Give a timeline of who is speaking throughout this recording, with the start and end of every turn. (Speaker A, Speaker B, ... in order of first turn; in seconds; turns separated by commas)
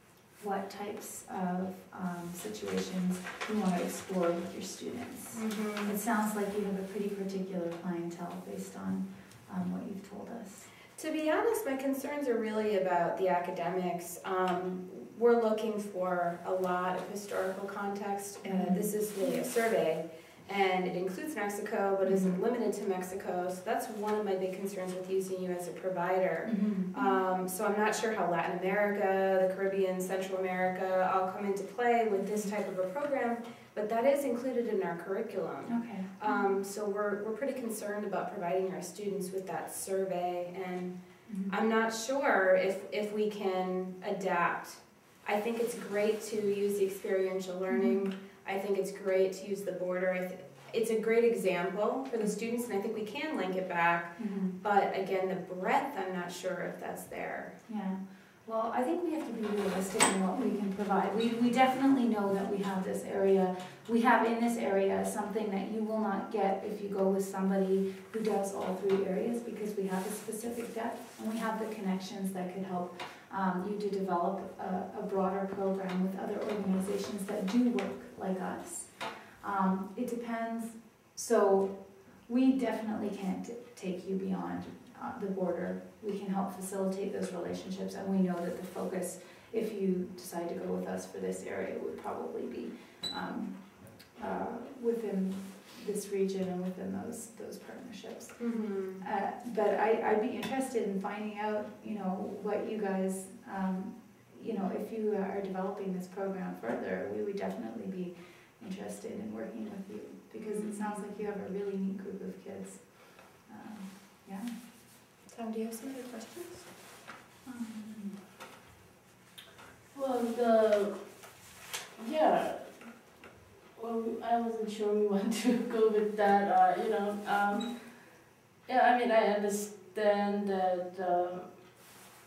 Speaker A: 0.4-10.7, Speaker B: 5.3-5.9, Speaker B: 11.0-57.6, Speaker A: 18.4-18.9, Speaker A: 22.0-22.4, Speaker A: 26.4-27.0, Speaker A: 32.2-32.5, Speaker A: 35.6-36.5, Speaker A: 41.2-41.5, Speaker A: 47.7-48.0, Speaker A: 54.1-54.6, Speaker A: 57.6-114.5, Speaker B: 98.4-99.0, Speaker B: 110.4-111.1, Speaker B: 115.3-116.7, Speaker A: 117.4-118.2, Speaker C: 119.9-121.3, Speaker C: 122.0-123.1, Speaker C: 123.8-131.9